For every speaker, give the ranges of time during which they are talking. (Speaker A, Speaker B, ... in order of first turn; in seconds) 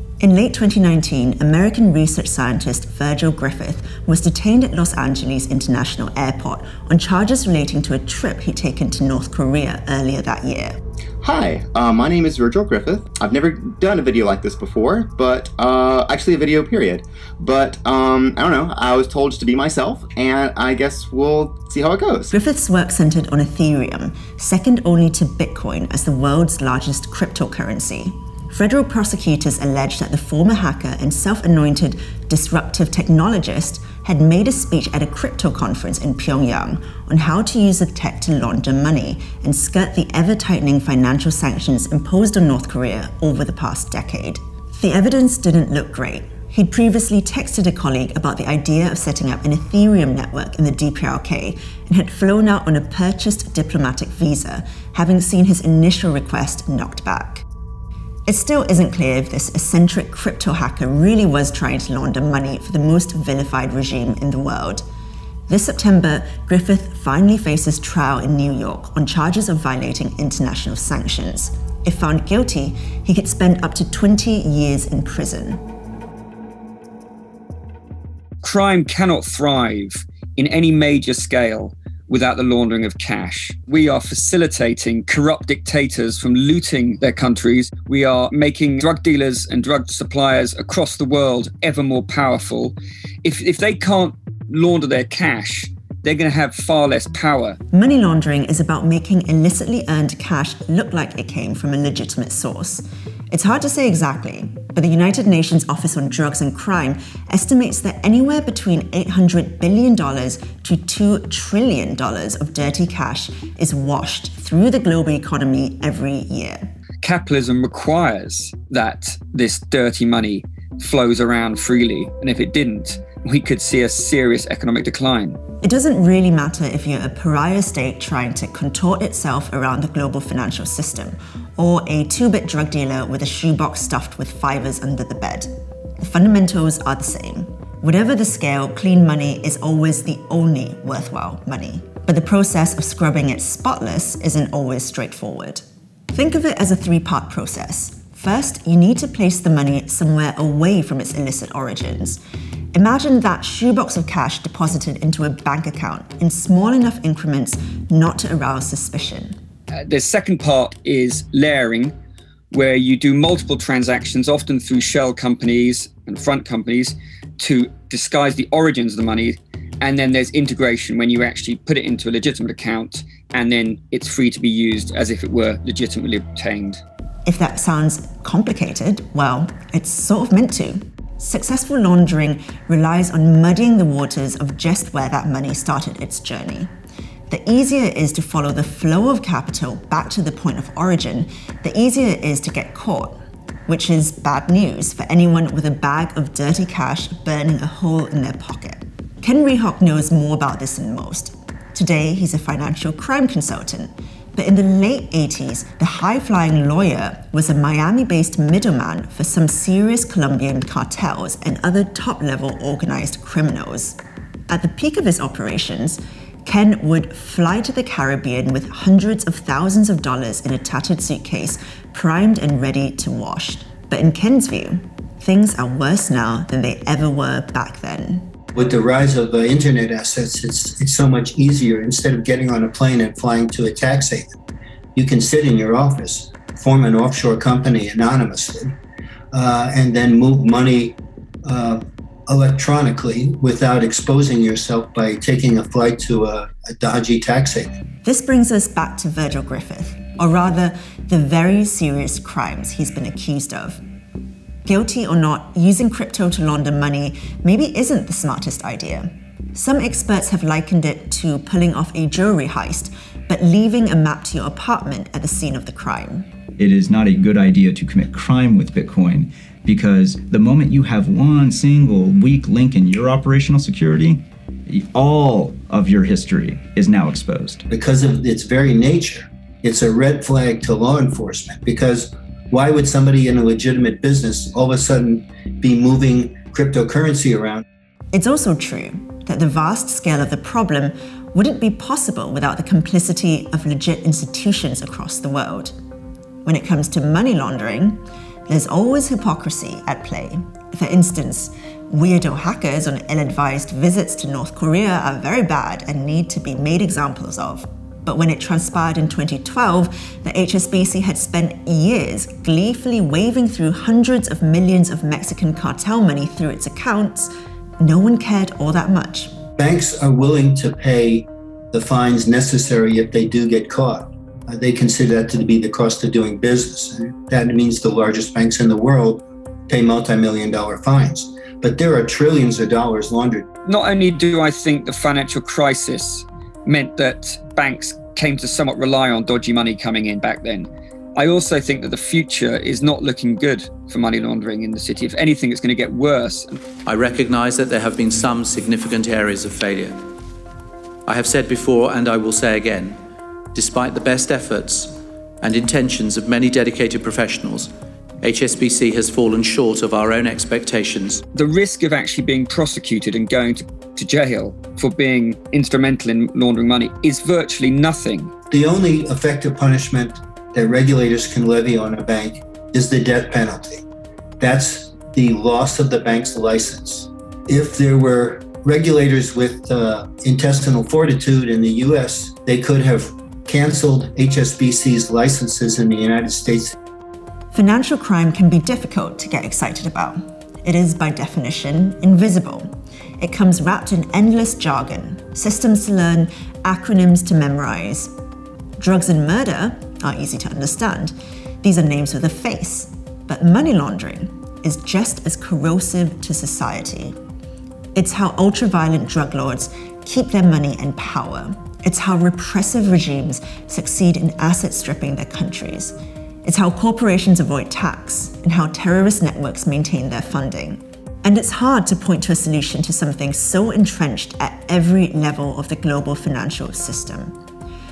Speaker A: 0.2-10.8, 22.3-57.4, 58.3-64.8, 65.5-75.6, 97.7-116.7, 125.6-135.5, 136.0-152.2, 152.7-159.3, 177.2-186.7, 187.3-214.0, 214.5-228.2, 248.0-253.8, 254.7-266.3, 288.1-295.7, 296.4-319.3, 387.5-398.1, 398.8-407.1, 407.9-427.3
Speaker B: 11.2-22.3
Speaker C: 78.4-97.6, 117.0-125.4, 159.8-161.9, 162.5-176.8, 333.6-346.6, 361.3-368.3
Speaker D: 228.5-234.3, 234.9-238.8, 239.3-247.7, 277.7-287.6, 319.6-333.4, 368.5-373.8, 374.4-386.7
Speaker E: 266.6-277.6
Speaker F: 346.9-349.9, 351.1-353.0, 353.5-357.7, 358.2-361.2